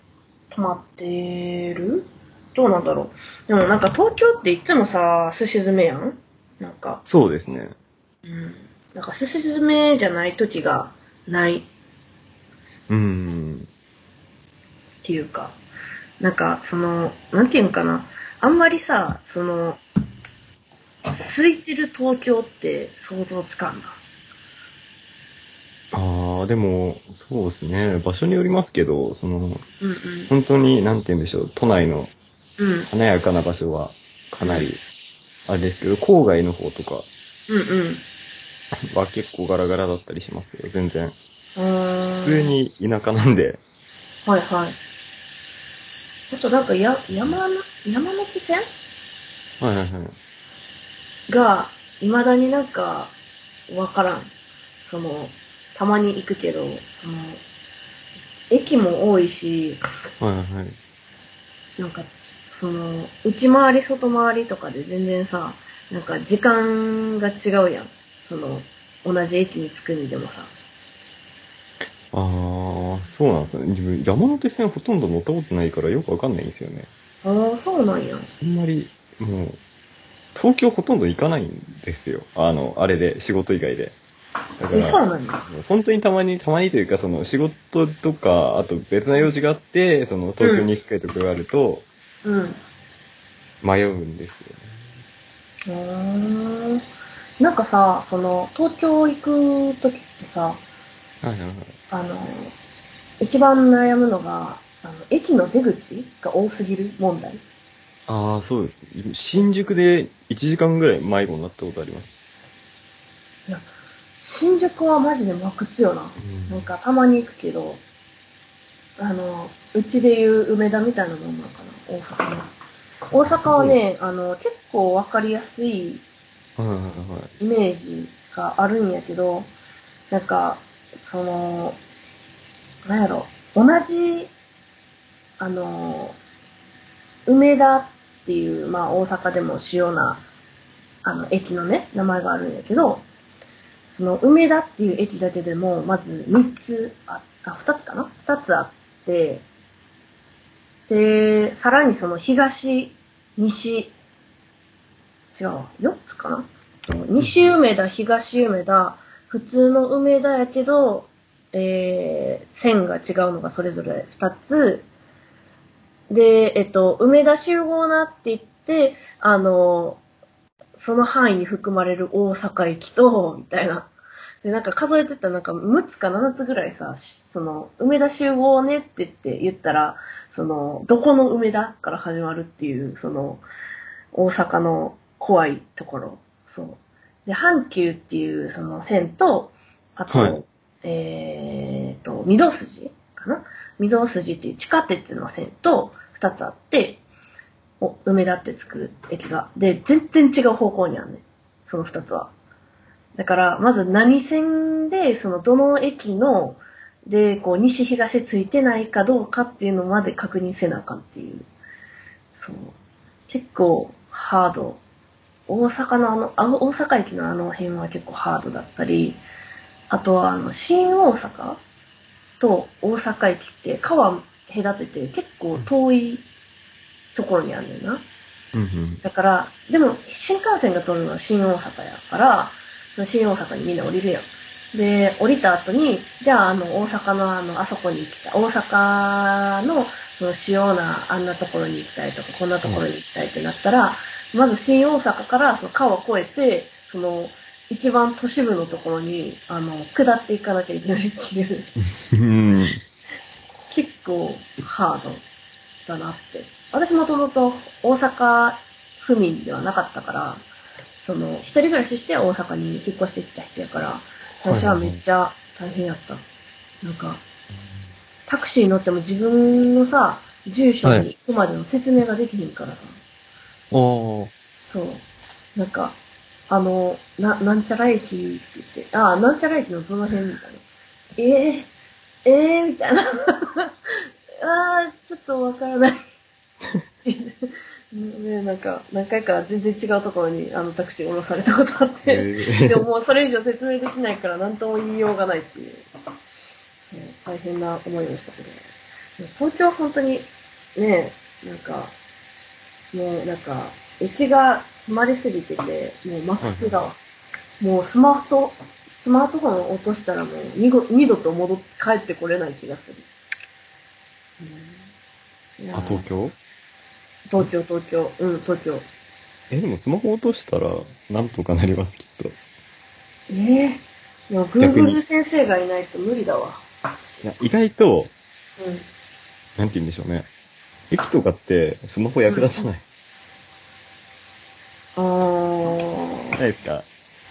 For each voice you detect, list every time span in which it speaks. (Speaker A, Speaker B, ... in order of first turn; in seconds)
Speaker A: 0.5-7.0, 8.3-11.7, 15.0-15.6, 16.2-19.8, 21.1-24.0, 29.8-30.3, 32.6-32.9, 34.4-34.7, 37.5-38.0, 41.6-42.5, 44.3-44.8, 46.3-48.6, 51.3-53.1, 53.7-57.4, 58.5-59.8, 61.8-70.5, 77.2-78.3, 84.7-85.5, 90.4-90.7, 92.2-92.6, 95.7-96.8, 97.4-100.6, 101.9-102.5, 103.2-107.4, 113.5-117.8, 119.0-122.5, 123.1-126.0, 127.4-129.5, 130.1-131.8, 132.8-134.3, 135.4-136.2, 137.3-140.2, 141.0-143.0, 143.9-149.4, 150.9-153.9, 155.3-164.9, 166.1-170.0, 170.8-173.9, 174.4-183.4, 184.1-197.0, 197.8-202.3, 203.2-211.5, 212.3-212.8, 213.3-214.8, 215.5-219.2, 219.9-221.6, 222.4-226.2, 227.2-228.1, 229.0-251.7, 253.7-255.2, 255.9-260.4, 261.0-266.2, 266.8-267.2, 268.3-273.0, 274.6-276.0, 276.5-280.6, 281.2-281.7, 282.2-286.0, 287.1-295.9, 296.9-302.0, 302.9-307.0, 307.6-313.1, 314.4-314.9, 315.6-316.1, 317.3-318.9, 323.3-327.3, 328.6-328.9, 335.0-336.4
Speaker B: 7.1-7.8, 12.9-13.7, 25.9-29.6, 30.3-32.1, 32.8-34.8, 35.5-37.1, 38.9-41.1, 42.1-43.6, 49.6-50.2, 60.2-60.8, 72.1-76.9, 78.4-79.6, 80.3-84.0, 84.6-91.9, 93.6-94.7, 101.2-101.7, 108.1-112.3, 116.2-116.7, 123.3-123.8, 126.6-127.3, 157.2-157.6, 190.1-190.4, 228.5-229.0, 252.1-252.8, 264.5-265.0, 273.7-274.3, 292.0-292.8, 306.4-306.9, 315.7-316.4, 319.5-322.4, 324.6-325.0, 327.2-328.1, 329.6-330.3, 330.9-332.8, 336.4-336.9